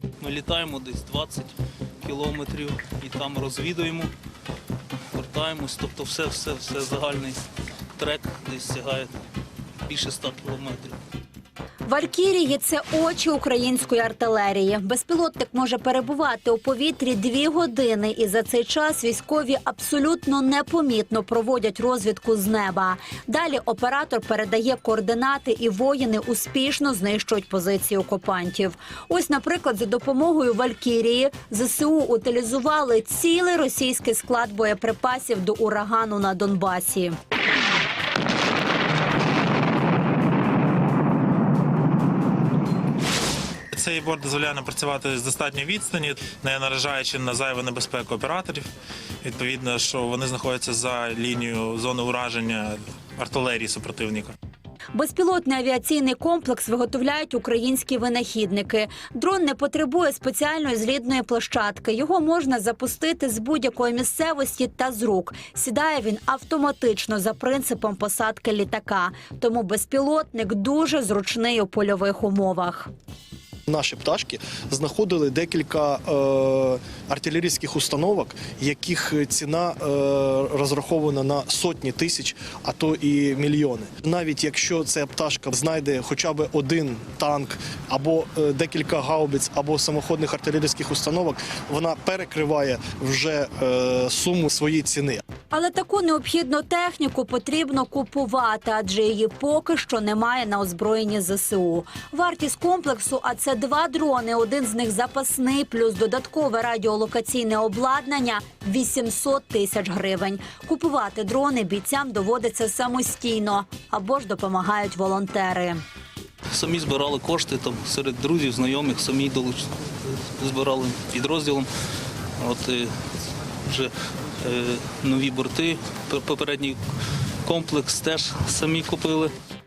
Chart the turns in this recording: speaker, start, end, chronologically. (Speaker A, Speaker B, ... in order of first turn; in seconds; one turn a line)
Speaker A: 0.2-4.1
Speaker A: 5.1-7.4
Speaker A: 8.0-9.1
Speaker A: 9.8-11.0
Speaker B: 11.8-37.1
Speaker C: 43.7-48.7
Speaker C: 49.2-54.3
Speaker B: 54.9-72.9
Speaker D: 73.7-95.2
Speaker B: 95.5-115.8
Speaker A: 116.5-121.7
Speaker A: 122.4-122.9
Speaker A: 123.6-126.8
Speaker A: 127.5-129.3